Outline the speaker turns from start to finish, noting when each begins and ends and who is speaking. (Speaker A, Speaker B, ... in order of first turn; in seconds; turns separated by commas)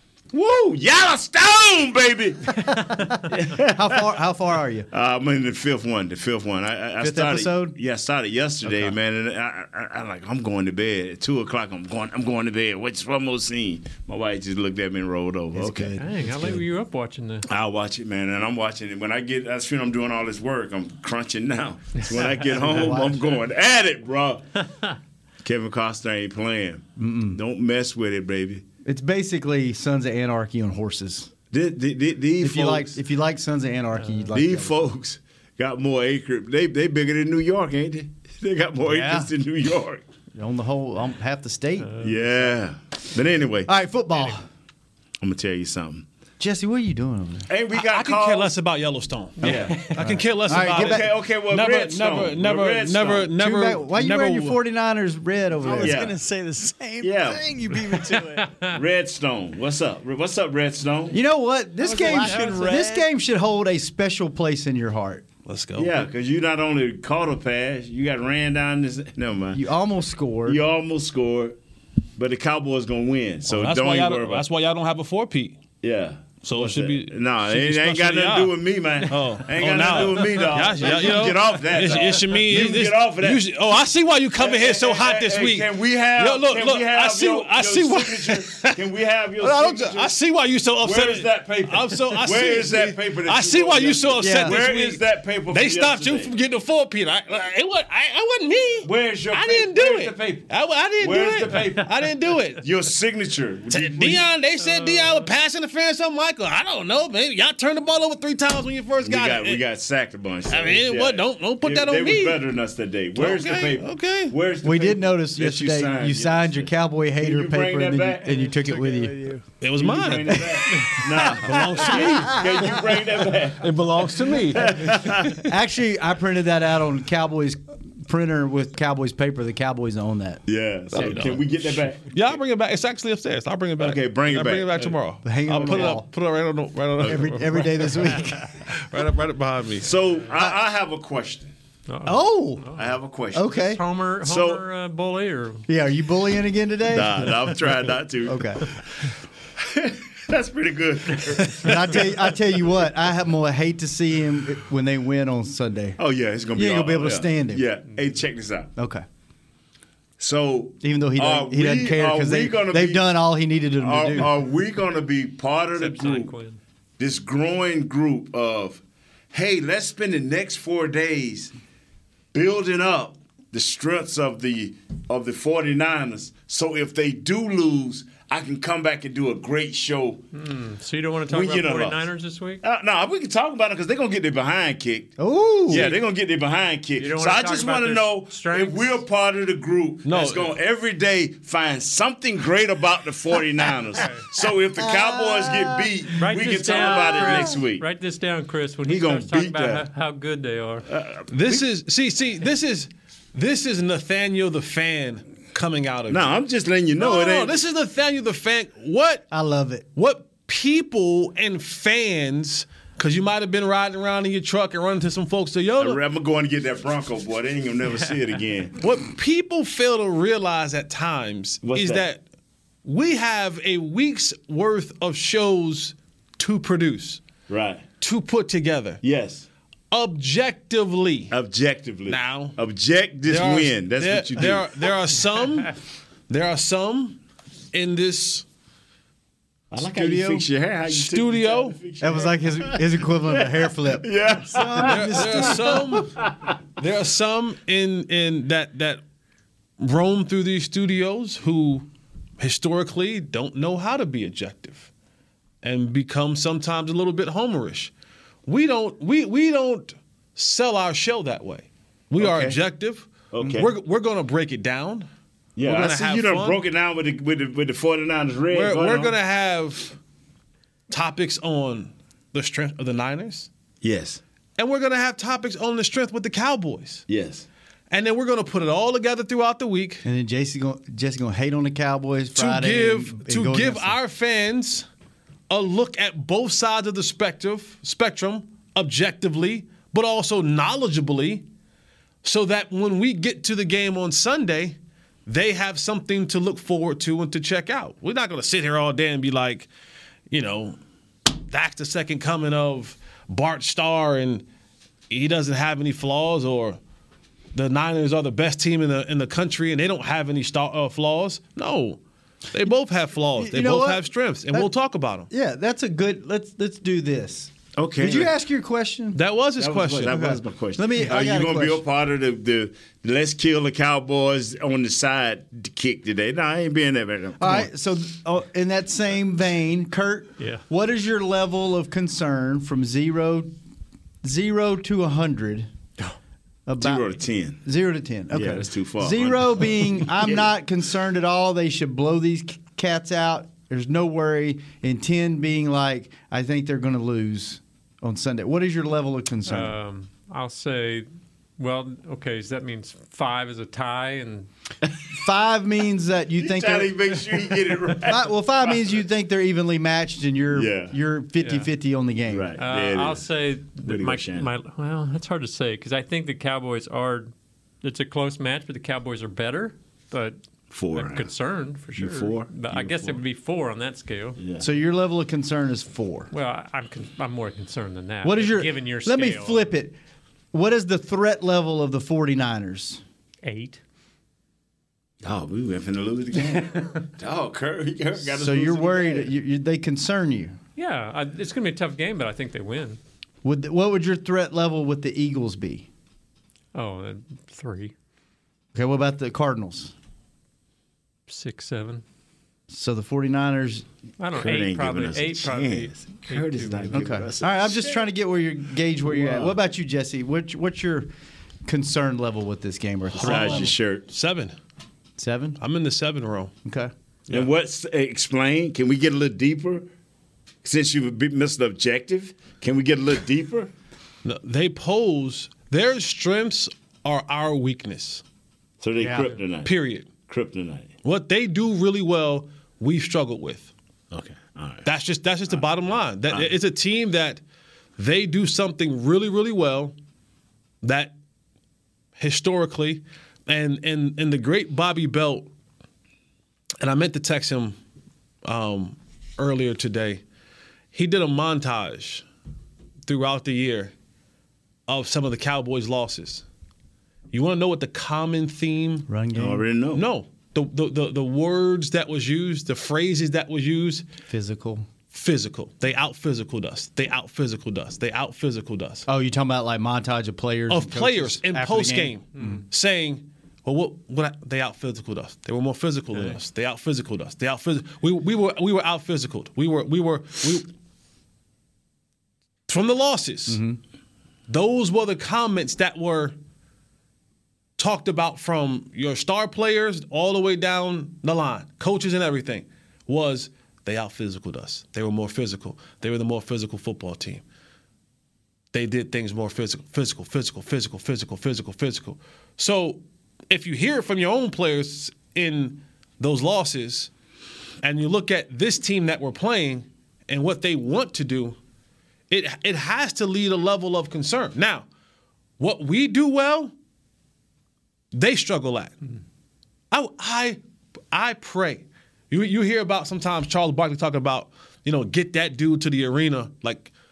Speaker A: 0.3-4.0, Speaker B: 2.6-4.9, Speaker A: 4.9-15.9, Speaker B: 7.0-7.8, Speaker B: 8.6-8.9, Speaker B: 15.5-16.6, Speaker C: 16.0-17.4, Speaker A: 17.5-24.4, Speaker B: 22.2-23.3, Speaker A: 25.4-28.6, Speaker B: 27.0-27.4, Speaker B: 28.8-31.3, Speaker A: 31.5-33.0, Speaker B: 32.4-34.9, Speaker A: 34.3-40.0, Speaker B: 38.9-39.3, Speaker B: 40.3-42.0, Speaker C: 41.8-42.1, Speaker A: 42.0-43.7, Speaker B: 43.7-44.5, Speaker A: 45.2-46.0, Speaker B: 46.4-47.5, Speaker A: 47.5-48.5, Speaker D: 47.7-54.6, Speaker A: 49.4-49.9, Speaker B: 49.4-51.1, Speaker A: 50.5-53.3, Speaker B: 53.3-56.0, Speaker E: 55.6-58.7, Speaker A: 55.8-56.2, Speaker A: 57.0-57.4, Speaker C: 58.4-58.7, Speaker A: 58.7-61.2, Speaker B: 61.1-65.2, Speaker E: 61.8-63.1, Speaker C: 62.1-62.5, Speaker D: 65.5-66.1, Speaker A: 65.8-69.6, Speaker B: 69.5-70.6, Speaker A: 70.4-71.5, Speaker A: 72.2-74.4, Speaker D: 73.5-75.6, Speaker A: 75.8-83.4, Speaker D: 76.4-88.8, Speaker A: 84.4-90.1, Speaker D: 89.4-102.6, Speaker A: 90.8-96.3, Speaker B: 94.2-94.6, Speaker A: 98.8-100.5, Speaker A: 101.0-101.9, Speaker A: 102.6-104.2, Speaker D: 103.7-109.6, Speaker A: 109.0-118.3, Speaker D: 110.5-112.4, Speaker D: 113.1-114.3, Speaker B: 114.6-119.3, Speaker E: 118.3-119.4, Speaker D: 119.6-122.5, Speaker A: 119.8-123.8, Speaker B: 122.1-122.4, Speaker D: 123.6-125.4, Speaker A: 124.3-125.4, Speaker B: 125.4-130.4, Speaker A: 130.5-132.1, Speaker D: 130.9-131.5, Speaker D: 132.0-139.9, Speaker A: 133.8-135.0, Speaker B: 135.2-136.1, Speaker A: 137.0-137.4, Speaker B: 137.0-138.5, Speaker A: 139.8-141.5, Speaker C: 141.9-142.8, Speaker B: 142.1-142.7, Speaker A: 142.8-143.6, Speaker B: 143.3-143.8, Speaker C: 143.4-145.7, Speaker A: 144.2-144.6, Speaker B: 145.7-148.6, Speaker A: 146.9-148.7, Speaker A: 149.6-152.1, Speaker B: 151.5-156.0, Speaker A: 156.0-158.7, Speaker B: 156.5-157.7, Speaker B: 158.8-159.0, Speaker A: 160.2-163.1, Speaker B: 160.8-164.4, Speaker A: 163.8-166.3, Speaker C: 165.8-166.6, Speaker A: 167.0-171.5, Speaker A: 172.3-180.2, Speaker C: 180.3-182.6, Speaker A: 181.3-182.1, Speaker A: 182.6-197.8, Speaker B: 185.2-185.9, Speaker C: 187.0-189.0, Speaker D: 190.0-190.5, Speaker C: 193.9-194.2, Speaker B: 194.8-195.9, Speaker C: 196.2-200.9, Speaker B: 196.9-197.4, Speaker A: 198.8-199.8, Speaker A: 200.9-201.6, Speaker D: 201.3-206.3, Speaker A: 206.1-207.6, Speaker D: 207.0-209.2, Speaker B: 209.3-209.9, Speaker D: 209.9-216.0, Speaker A: 215.8-218.8, Speaker D: 218.8-222.2, Speaker A: 221.6-222.0, Speaker D: 222.8-227.2, Speaker A: 227.5-227.9, Speaker D: 228.0-229.0, Speaker A: 229.0-229.4, Speaker D: 229.9-231.3, Speaker A: 231.3-234.8, Speaker D: 232.1-232.6, Speaker D: 233.2-235.8, Speaker D: 236.3-237.2, Speaker D: 237.7-238.4, Speaker A: 239.7-246.5, Speaker B: 239.7-240.5, Speaker D: 240.9-241.8, Speaker B: 242.0-246.0, Speaker D: 244.8-246.2, Speaker D: 246.8-249.0, Speaker D: 249.8-251.9, Speaker D: 252.4-254.9, Speaker D: 255.6-257.9, Speaker D: 258.5-265.1, Speaker A: 262.2-262.6, Speaker A: 263.3-263.7, Speaker A: 265.6-269.1, Speaker D: 265.6-266.6, Speaker D: 268.5-270.0, Speaker D: 270.9-273.5, Speaker A: 273.8-274.2, Speaker D: 274.6-277.0, Speaker A: 277.1-277.4, Speaker D: 277.9-280.1, Speaker B: 280.0-284.0, Speaker D: 282.4-284.8, Speaker D: 285.5-291.4, Speaker D: 292.2-299.7, Speaker D: 300.3-300.8, Speaker D: 301.5-304.4, Speaker D: 305.1-306.8, Speaker D: 307.5-312.0, Speaker D: 312.5-315.3, Speaker B: 313.4-314.7, Speaker B: 315.3-319.2, Speaker A: 317.8-318.3, Speaker D: 319.1-320.2, Speaker A: 319.6-327.7, Speaker B: 320.0-321.8, Speaker B: 327.4-333.5, Speaker B: 334.2-335.7, Speaker B: 336.7-349.8, Speaker A: 336.8-337.6, Speaker A: 338.3-340.5, Speaker C: 349.4-354.5, Speaker B: 355.1-357.3, Speaker A: 356.4-358.7, Speaker B: 358.0-362.5, Speaker A: 360.5-360.9, Speaker C: 361.4-361.7, Speaker A: 362.3-364.5, Speaker C: 362.6-370.4, Speaker A: 370.7-371.3, Speaker C: 370.9-374.4, Speaker A: 371.9-373.2, Speaker A: 374.4-374.6, Speaker B: 374.6-376.3, Speaker C: 376.3-379.7, Speaker B: 378.2-379.9, Speaker B: 380.5-383.0, Speaker C: 383.4-383.8, Speaker A: 385.2-389.3, Speaker B: 388.2-390.6, Speaker C: 390.8-393.0, Speaker B: 393.4-395.9, Speaker C: 396.7-397.9, Speaker B: 398.7-399.9, Speaker C: 401.3-402.0, Speaker B: 402.7-403.8, Speaker C: 404.2-407.2, Speaker A: 404.3-408.0, Speaker B: 406.9-411.1, Speaker A: 409.0-409.5, Speaker B: 411.6-413.7, Speaker D: 413.1-414.5, Speaker A: 413.2-414.1, Speaker B: 415.2-415.6, Speaker D: 415.6-416.5, Speaker B: 416.6-416.9, Speaker A: 417.3-419.9, Speaker A: 420.6-423.7, Speaker D: 424.2-428.2, Speaker A: 428.8-430.9, Speaker B: 429.0-429.4, Speaker D: 429.6-430.1, Speaker D: 431.0-433.7, Speaker A: 434.1-434.9, Speaker D: 434.8-437.4, Speaker D: 438.0-439.9, Speaker D: 440.8-441.1, Speaker D: 442.2-445.5, Speaker D: 446.8-447.7, Speaker D: 448.4-450.2, Speaker D: 450.9-452.2, Speaker D: 453.1-453.9, Speaker D: 454.9-456.4, Speaker D: 457.3-459.1, Speaker B: 459.1-459.6, Speaker A: 459.4-460.0, Speaker D: 459.9-464.0, Speaker B: 464.3-464.9, Speaker D: 465.1-469.0, Speaker B: 469.1-472.6, Speaker D: 470.7-480.7, Speaker D: 482.7-483.6, Speaker B: 483.5-483.8, Speaker D: 484.5-486.3, Speaker D: 487.8-497.4, Speaker D: 498.7-507.1, Speaker D: 507.8-511.6, Speaker D: 512.3-514.8, Speaker D: 515.6-516.7, Speaker D: 518.1-518.9, Speaker D: 519.9-520.6, Speaker D: 521.1-526.9